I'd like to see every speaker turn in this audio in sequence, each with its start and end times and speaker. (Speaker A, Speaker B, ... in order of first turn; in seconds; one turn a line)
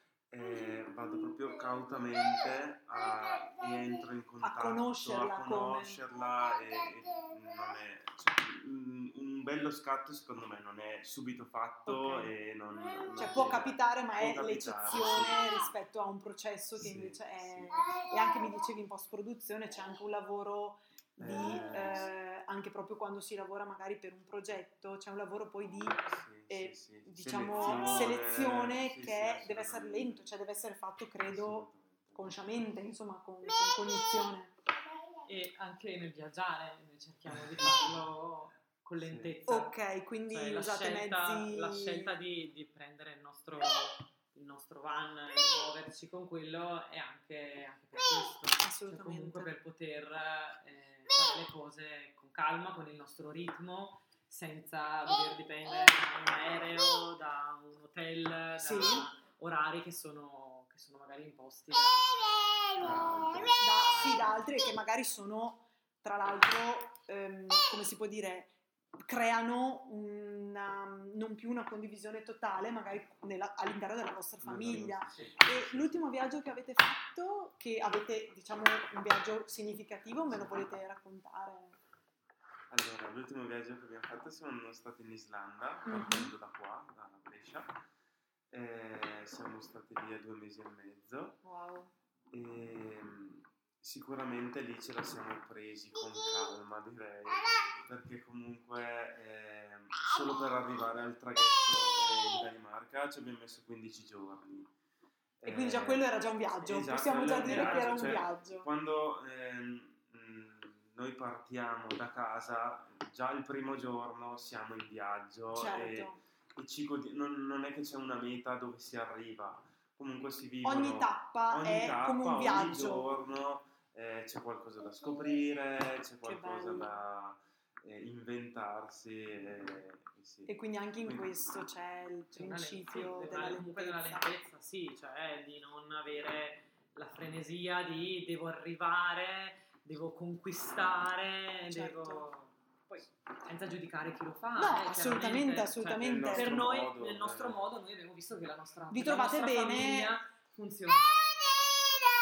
Speaker A: 0.3-15.7
Speaker B: 4.4-6.0
Speaker B: 11.9-12.3
Speaker B: 13.2-34.5
Speaker A: 16.8-17.7
Speaker A: 21.2-22.1
Speaker A: 26.1-30.2
Speaker A: 31.3-32.3
Speaker C: 35.2-39.8
Speaker A: 37.6-37.8
Speaker A: 39.0-39.4
Speaker B: 39.5-42.1
Speaker C: 40.3-62.3
Speaker B: 48.6-49.5
Speaker B: 58.6-59.1
Speaker A: 62.8-63.6
Speaker C: 63.0-64.5
Speaker B: 63.5-81.8
Speaker A: 74.4-76.2
Speaker A: 82.7-87.8
Speaker B: 85.8-86.3
Speaker A: 88.5-91.4
Speaker B: 91.4-91.9
Speaker A: 92.3-104.7
Speaker A: 105.4-106.1
Speaker B: 105.4-108.7
Speaker A: 106.6-130.5
Speaker C: 107.4-108.2
Speaker B: 115.5-116.2
Speaker B: 120.6-123.1
Speaker B: 126.2-126.9
Speaker B: 130.5-134.3
Speaker C: 132.3-151.3
Speaker B: 141.7-142.3
Speaker B: 144.6-146.5
Speaker A: 146.0-147.7
Speaker B: 148.9-150.1